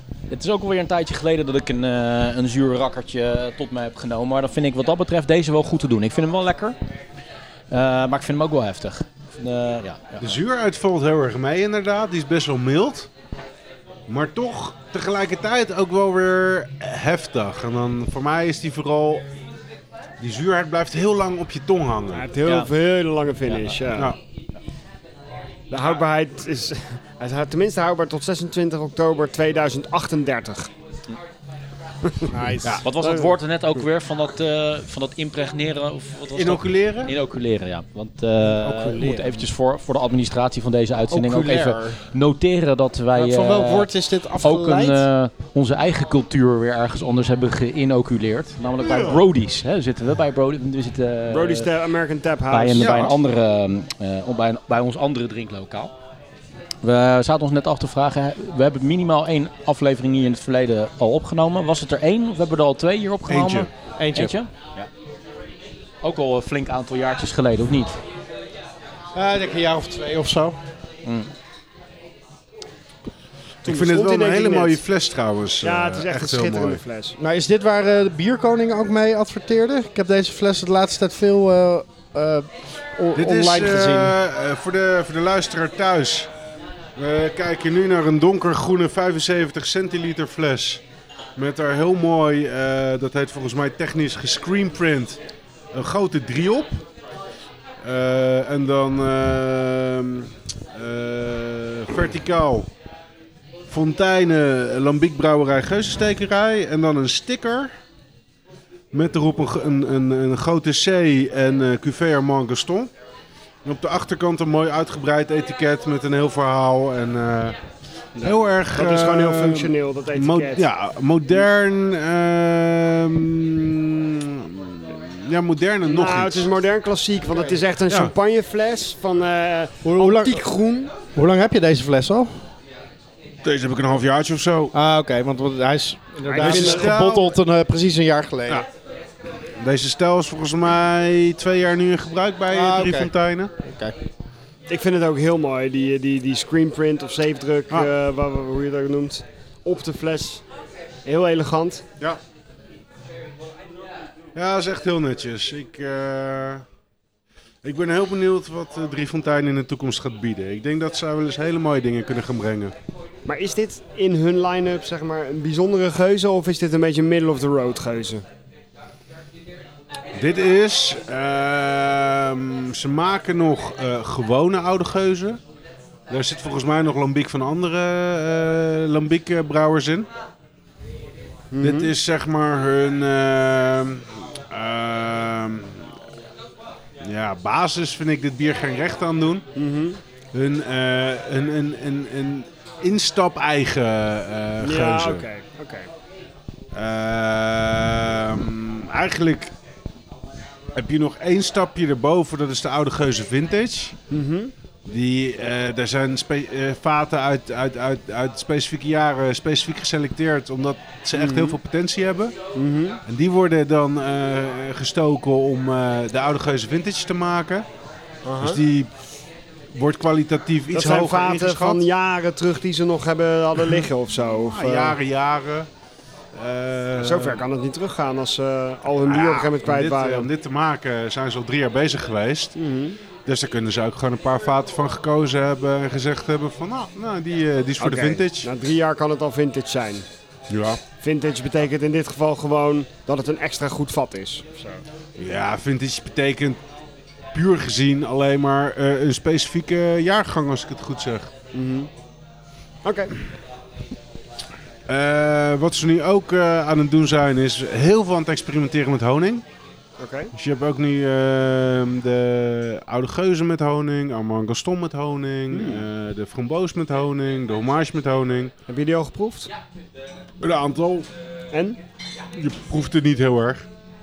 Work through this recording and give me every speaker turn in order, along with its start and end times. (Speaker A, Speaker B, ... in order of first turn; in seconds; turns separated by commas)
Speaker A: 0.3-6.8, Speaker A: 7.7-10.4, Speaker B: 10.2-13.1, Speaker B: 14.1-19.2, Speaker B: 20.2-22.3, Speaker C: 22.1-24.1, Speaker A: 22.4-22.7, Speaker C: 25.7-30.7, Speaker C: 32.0-32.3, Speaker D: 32.3-32.8, Speaker A: 32.8-51.7, Speaker C: 33.0-33.4, Speaker B: 36.4-37.1, Speaker D: 38.7-39.2, Speaker D: 41.1-42.0, Speaker D: 43.1-45.1, Speaker C: 51.3-53.1, Speaker A: 52.5-55.9, Speaker B: 52.8-53.1, Speaker A: 56.8-64.9, Speaker B: 63.3-63.7, Speaker D: 64.0-64.3, Speaker A: 66.0-68.0, Speaker D: 69.1-70.6, Speaker A: 71.0-71.3, Speaker B: 73.6-76.8, Speaker C: 73.6-74.8, Speaker C: 75.6-77.1, Speaker D: 77.2-84.2, Speaker B: 83.2-86.3, Speaker B: 87.0-90.8, Speaker B: 91.4-95.2, Speaker B: 95.7-96.8, Speaker B: 97.8-102.7, Speaker B: 103.7-107.7, Speaker B: 108.9-112.9, Speaker B: 113.6-117.6, Speaker B: 118.2-126.5, Speaker C: 118.2-120.6, Speaker C: 125.8-130.9, Speaker D: 129.8-130.4, Speaker D: 131.1-132.4, Speaker B: 133.4-134.8, Speaker D: 134.7-138.7, Speaker C: 136.3-137.0, Speaker B: 136.4-137.3, Speaker B: 139.6-143.5, Speaker D: 142.5-143.9, Speaker C: 144.7-150.4, Speaker C: 151.1-151.8, Speaker B: 154.3-156.6, Speaker B: 157.6-162.7, Speaker C: 163.2-168.2, Speaker B: 170.2-175.4, Speaker B: 176.1-180.1, Speaker C: 181.5-181.9, Speaker B: 181.6-185.9, Speaker B: 187.0-189.5, Speaker C: 189.6-190.0, Speaker B: 190.3-195.2, Speaker C: 194.6-195.9, Speaker B: 196.7-199.5, Speaker B: 200.8-204.0, Speaker C: 204.1-204.5, Speaker B: 204.9-212.3, Speaker C: 211.1-211.6, Speaker C: 212.6-213.0, Speaker B: 213.1-217.7, Speaker C: 218.2-218.6, Speaker B: 218.4-218.9, Speaker B: 219.7-221.8, Speaker C: 220.7-225.0, Speaker B: 224.5-225.7, Speaker B: 226.3-227.4, Speaker C: 227.0-230.3, Speaker B: 229.1-232.6, Speaker C: 232.6-233.0, Speaker B: 233.3-238.5, Speaker C: 237.8-240.1, Speaker B: 240.5-240.8, Speaker C: 241.0-244.8, Speaker B: 245.2-246.6, Speaker B: 247.3-251.3, Speaker C: 251.5-251.9, Speaker C: 252.8-253.1, Speaker B: 254.9-259.4, Speaker C: 260.0-260.3, Speaker B: 260.3-268.5, Speaker C: 265.5-265.9, Speaker C: 268.7-269.5, Speaker B: 270.4-271.1, Speaker C: 271.5-271.8, Speaker B: 272.3-273.6